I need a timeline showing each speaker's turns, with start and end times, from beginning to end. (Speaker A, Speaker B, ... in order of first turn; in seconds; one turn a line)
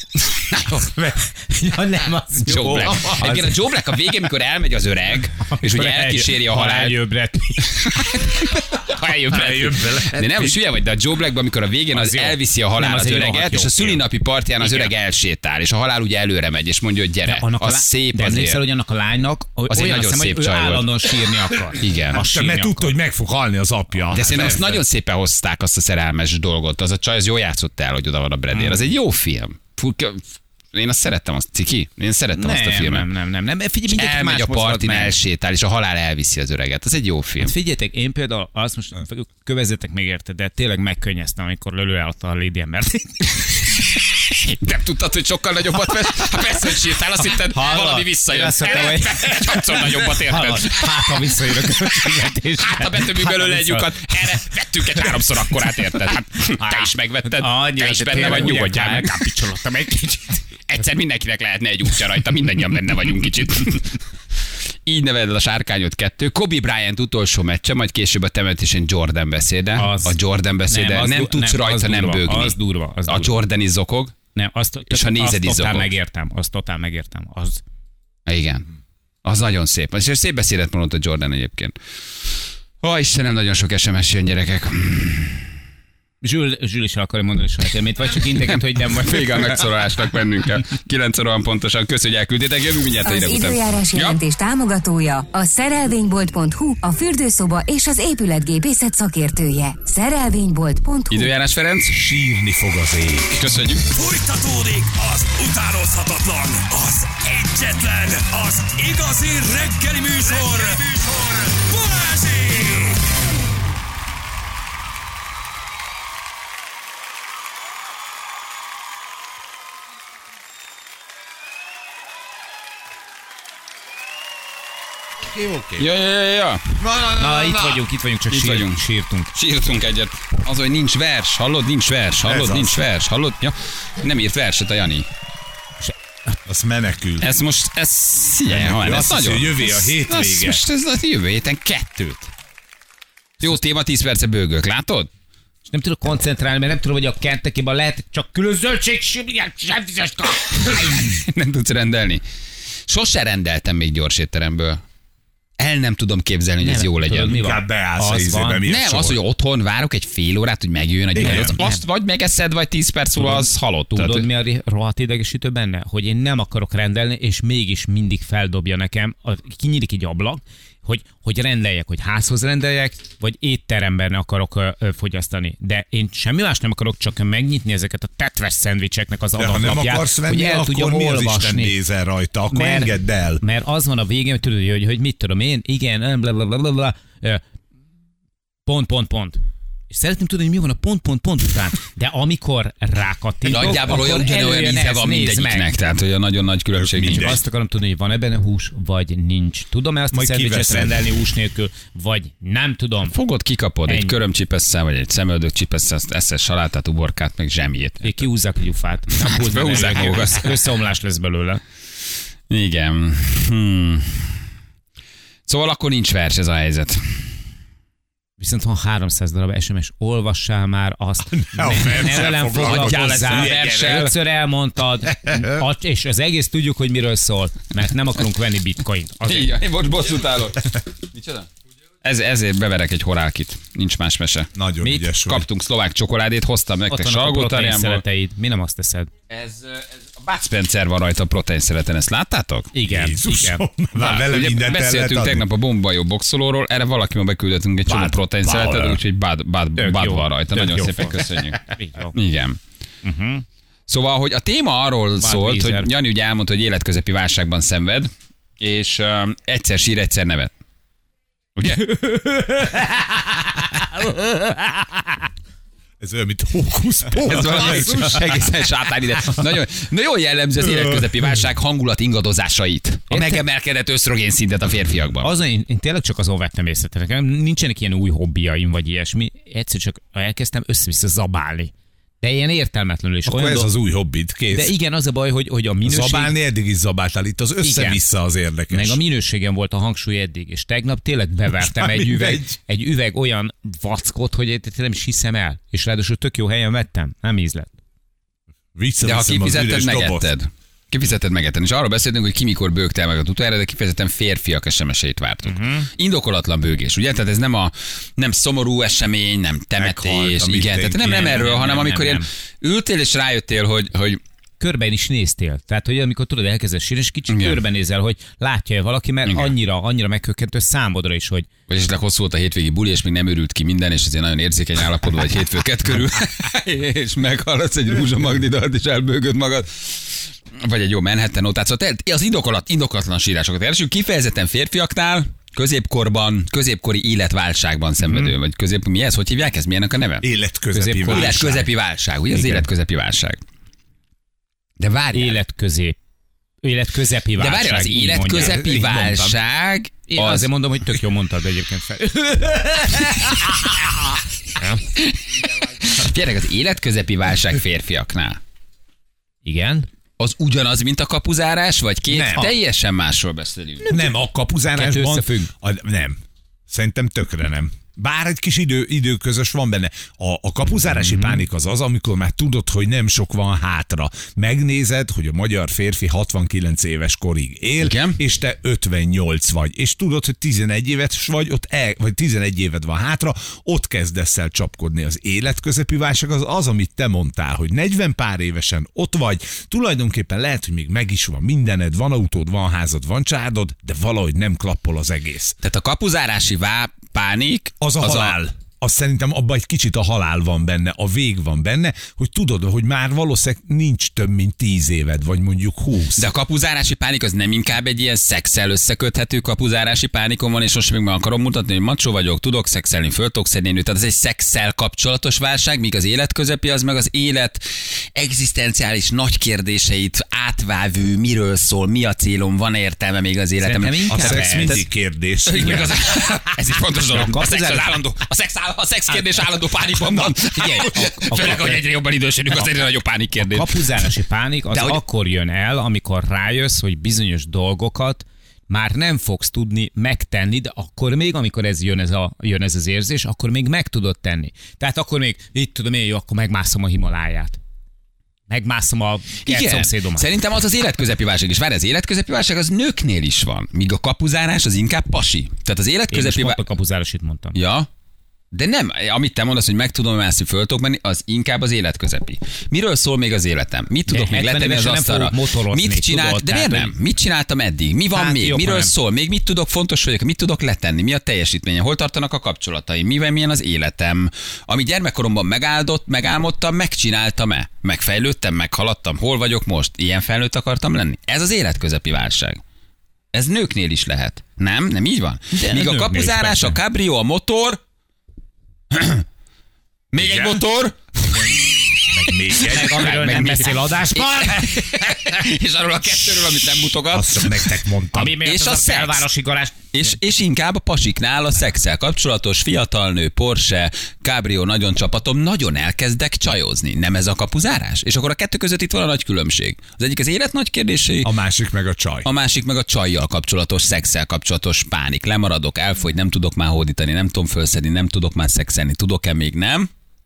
Speaker A: 0.3-1.1
Speaker B: 1.3-3.5
Speaker A: 2.4-7.0
Speaker C: 2.9-3.4
Speaker B: 5.4-9.7
Speaker A: 7.7-18.6
Speaker C: 9.3-10.6
Speaker B: 11.9-14.0
Speaker B: 14.6-14.9
Speaker B: 17.2-22.9
Speaker A: 19.7-20.9
Speaker A: 21.8-22.2
Speaker C: 22.1-24.8
Speaker A: 24.1-33.1
Speaker B: 28.5-28.9
Speaker B: 32.4-35.2
Speaker A: 33.9-37.5
Speaker B: 37.4-43.3
Speaker A: 43.7-59.3
Speaker B: 47.5-54.0
Speaker B: 56.4-60.4
Speaker A: 60.7-64.0
Speaker A: 64.8-72.5
Speaker B: 69.8-70.2
Speaker B: 70.7-73.3
Speaker A: 73.1-74.2
Speaker B: 74.3-77.6
Speaker A: 74.9-75.9
Speaker A: 78.2-78.7
Speaker A: 79.2-81.7
Speaker A: 82.8-85.5
Speaker B: 86.2-89.6
Speaker A: 88.3-94.2
Speaker D: 93.0-101.3
Speaker A: 101.1-102.0
Speaker C: 101.9-103.5
Speaker A: 103.3-103.8
Speaker E: 103.9-113.1
Speaker C: 125.2-125.9
Speaker A: 125.8-126.8
Speaker C: 126.8-127.8
Speaker B: 127.1-129.3
Speaker A: 128.3-128.8
Speaker A: 129.3-135.1
Speaker C: 132.2-132.8
Speaker C: 136.4-137.3
Speaker A: 137.2-142.3
Speaker C: 138.5-140.6
Speaker A: 143.4-145.1
Speaker B: 145.7-151.1
Speaker A: 150.6-152.2
Speaker A: 152.9-154.8
Speaker A: 155.6-157.4
Speaker B: 156.6-158.6
Speaker C: 157.3-159.2
Speaker A: 158.6-164.3
Speaker C: 161.1-161.6
Speaker B: 161.2-161.8
Speaker B: 163.2-181.7
Speaker C: 179.4-183.4
Speaker B: 182.5-187.4
Speaker B: 188.7-189.4
Speaker B: 189.9-195.7
Speaker A: 193.4-197.3
Speaker C: 196.7-197.4
Speaker B: 197.1-203.2
Speaker C: 200.1-201.1
Speaker A: 203.1-208.2
Speaker B: 203.9-204.1
Speaker B: 208.0-211.6
Speaker A: 209.1-210.6
Speaker A: 212.5-214.4
Speaker A: 215.5-217.3
Speaker B: 218.4-229.5
Speaker C: 221.3-224.0
Speaker A: 221.9-224.1
Speaker A: 229.2-231.5
Speaker A: 232.0-234.5
Speaker C: 234.5-235.4
Speaker A: 235.0-238.0
Speaker B: 236.9-239.1
Speaker A: 239.3-242.7
Speaker B: 242.7-243.7
Speaker C: 242.9-245.5
Speaker A: 243.9-252.6
Speaker C: 247.8-249.0
Speaker B: 249.8-252.2
Speaker B: 253.0-253.4
Speaker A: 253.9-260.5
Speaker B: 255.2-255.9
Speaker A: 261.6-262.0
Speaker B: 261.9-265.1
Speaker C: 266.0-268.5
Speaker A: 267.2-275.3
Speaker B: 273.1-273.4
Speaker B: 275.2-283.7
Speaker C: 283.2-284.7
Speaker B: 284.5-286.4
Speaker C: 285.8-289.0
Speaker B: 287.6-288.0
Speaker B: 288.7-297.7
Speaker C: 291.6-292.6
Speaker C: 298.7-300.3
Speaker A: 299.0-314.2
Speaker B: 305.4-305.9
Speaker C: 309.8-311.4
Speaker B: 311.0-312.2
Speaker B: 314.6-321.5
Speaker A: 317.3-317.6
Speaker A: 319.2-319.5
Speaker A: 321.7-340.2
Speaker B: 338.1-338.3
Speaker C: 340.2-341.7
Speaker B: 340.7-341.6
Speaker A: 341.0-343.4
Speaker B: 342.3-342.6
Speaker A: 344.8-345.4
Speaker B: 345.1-346.0
Speaker B: 346.6-348.6
Speaker A: 347.4-350.5
Speaker C: 348.3-349.4
Speaker B: 350.1-353.9
Speaker B: 354.6-354.8
Speaker A: 354.9-358.4
Speaker B: 359.4-359.9
Speaker A: 360.2-363.9
Speaker C: 362.1-362.5
Speaker C: 363.9-395.6
Speaker B: 364.7-365.5
Speaker B: 371.0-371.4
Speaker A: 377.8-378.2
Speaker A: 395.6-398.4
Speaker C: 397.8-406.3
Speaker A: 406.2-424.9
Speaker B: 423.6-424.9
Speaker C: 424.1-425.9
Speaker A: 425.4-433.9
Speaker B: 425.6-425.9
Speaker B: 427.1-427.9
Speaker B: 430.4-431.8
Speaker B: 433.4-447.6
Speaker A: 434.7-435.0
Speaker B: 448.5-450.3
Speaker A: 449.4-456.6
Speaker B: 456.1-457.6
Speaker A: 457.5-457.9
Speaker A: 458.5-482.6
Speaker B: 464.1-466.9
Speaker B: 468.1-468.9
Speaker A: 483.3-487.8
Speaker B: 485.5-486.8
Speaker A: 488.9-489.2
Speaker A: 490.1-497.7
Speaker C: 490.2-490.6
Speaker C: 492.1-493.2
Speaker B: 492.6-495.0
Speaker C: 497.1-498.4
Speaker B: 498.1-499.8
Speaker A: 498.3-499.3
Speaker A: 499.9-511.3
Speaker C: 511.2-512.3
Speaker A: 512.2-519.9